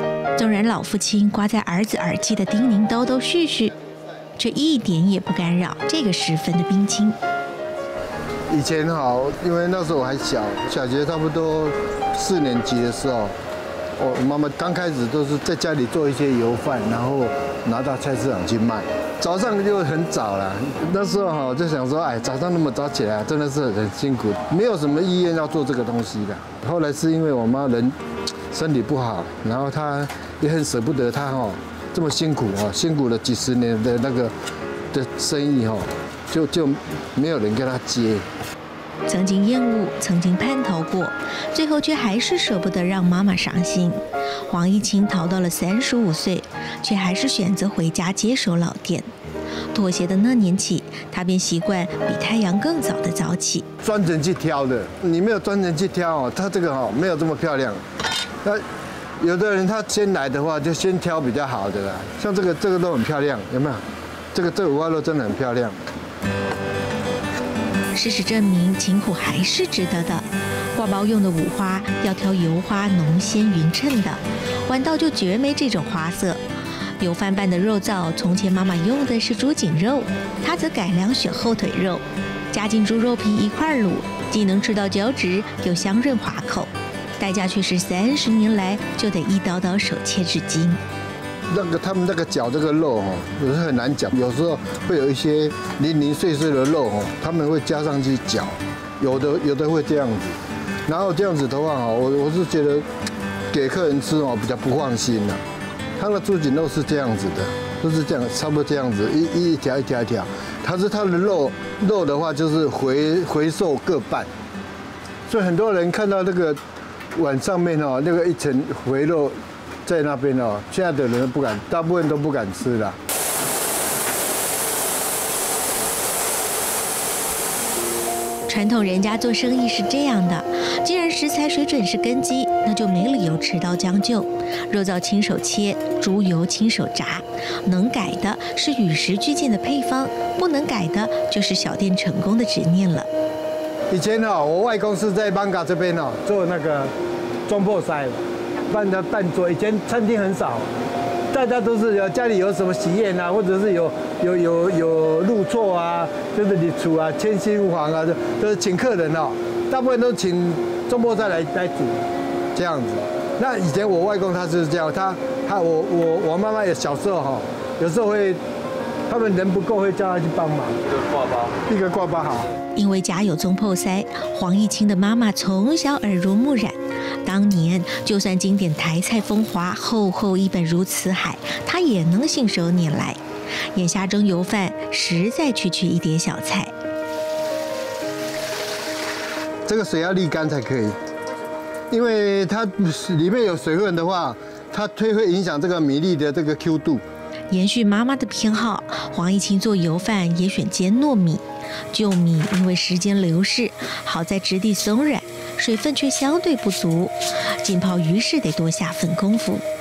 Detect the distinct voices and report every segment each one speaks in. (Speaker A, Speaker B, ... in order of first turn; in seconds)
Speaker A: 0.3-3.7, 4.4-7.2, 39.0-49.1, 49.7-53.7, 67.9-76.4, 77.0-90.8, 128.5-143.1, 172.7-183.2, 183.7-186.7, 197.5-209.6
Speaker B: 8.5-13.3, 14.0-27.9, 28.5-34.3, 34.9-38.2, 53.8-57.8, 59.2-63.8, 64.3-65.8, 91.5-100.3, 100.9-102.8, 103.5-105.4, 106.0-114.3, 115.3-116.6, 117.2-123.0, 143.9-146.9, 147.5-148.2, 148.7-150.7, 151.3-168.4, 169.1-170.8, 171.7-172.5, 189.7-190.9, 191.9-197.0